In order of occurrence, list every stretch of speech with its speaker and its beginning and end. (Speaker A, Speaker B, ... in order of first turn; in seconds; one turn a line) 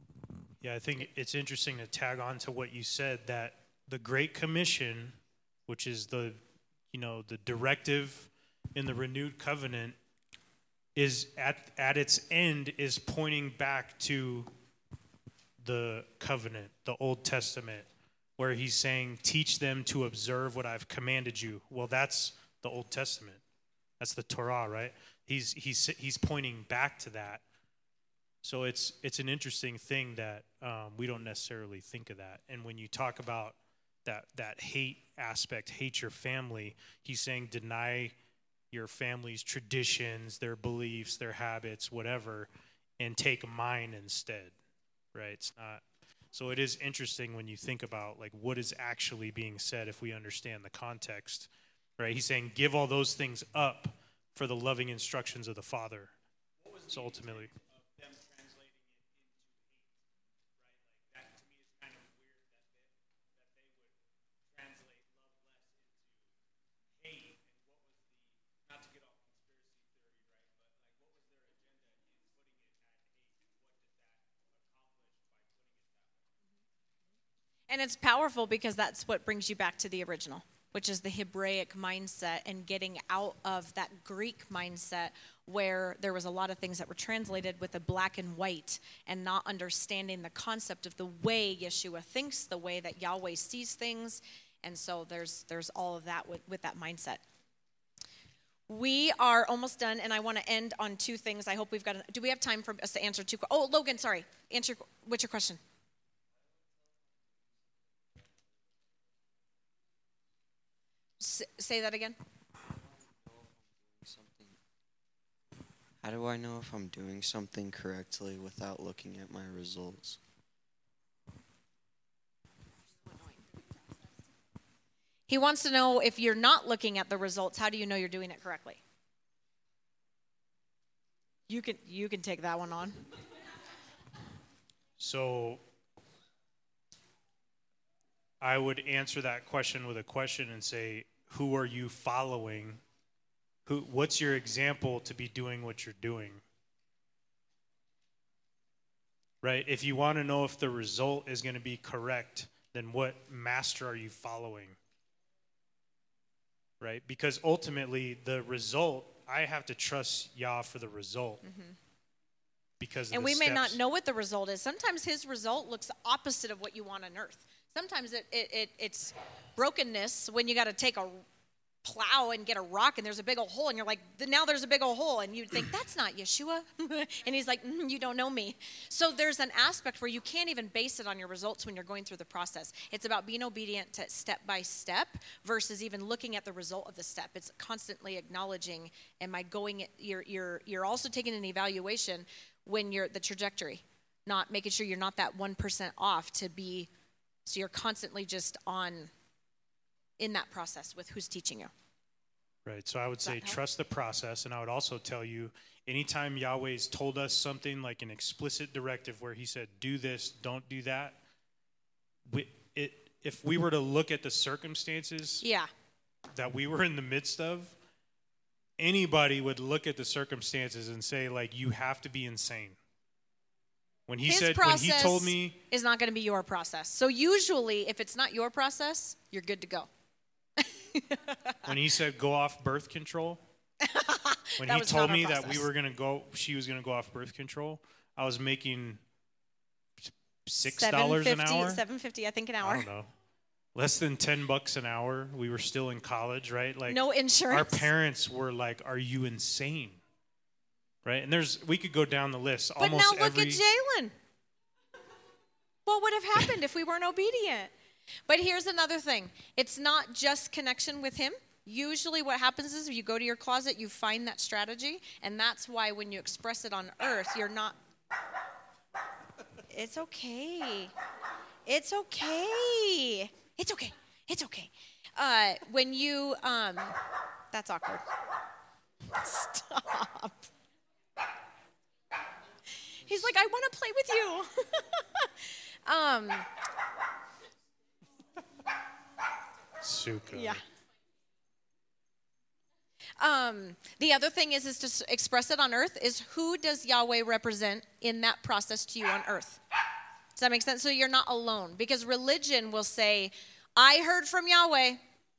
Speaker A: 0.6-6.4
Speaker A: 6.9-9.9
Speaker A: 10.9-14.5
Speaker A: 15.6-17.9
Speaker A: 18.4-23.4
Speaker A: 24.0-27.4
Speaker A: 28.4-38.1
Speaker A: 38.7-44.5
Speaker A: 45.1-45.8
Speaker A: 46.3-56.1
Speaker A: 56.8-58.3
Speaker A: 61.1-62.4
Speaker A: 64.6-65.1
Speaker A: 67.0-67.5
Speaker A: 68.7-72.0
Speaker A: 73.8-74.1
Speaker A: 74.9-75.9
Speaker B: 77.7-97.2
Speaker B: 98.7-105.6
Speaker B: 111.2-112.2
Speaker C: 113.2-114.6
Speaker C: 116.0-120.2
Speaker B: 125.3-128.8
Speaker B: 131.5-133.0
Speaker A: 135.0-135.6
Speaker A: 138.4-142.8
Speaker A: 143.7-146.4
Speaker A: 149.4-154.8
Speaker A: 156.8-161.4
Speaker B: 161.4-161.8
Speaker A: 162.8-163.8
Speaker B: 163.1-171.2
Speaker B: 171.8-196.9
Speaker B: 197.4-199.1
Speaker B: 200.2-201.7
Speaker A: 202.6-211.2
Speaker B: 203.2-203.6
Speaker A: 212.3-215.4
Speaker B: 215.4-215.7
Speaker A: 216.3-217.7
Speaker A: 218.8-222.8
Speaker A: 224.1-225.6
Speaker B: 224.2-229.9
Speaker B: 230.6-231.6
Speaker A: 231.6-233.4
Speaker B: 233.8-235.7
Speaker A: 234.6-239.0
Speaker A: 240.0-241.8
Speaker B: 240.6-242.8
Speaker A: 242.6-243.1
Speaker A: 243.7-247.0
Speaker B: 246.9-247.9
Speaker A: 247.5-250.0
Speaker A: 251.0-253.6
Speaker B: 252.8-254.1
Speaker B: 255.8-257.7
Speaker B: 258.3-267.7
Speaker B: 269.7-270.9
Speaker B: 271.6-277.0
Speaker B: 277.5-278.0
Speaker B: 279.1-280.5
Speaker B: 283.0-285.3
Speaker B: 285.9-286.5
Speaker A: 289.8-290.6
Speaker B: 290.3-290.6
Speaker B: 293.2-299.6
Speaker B: 300.4-305.0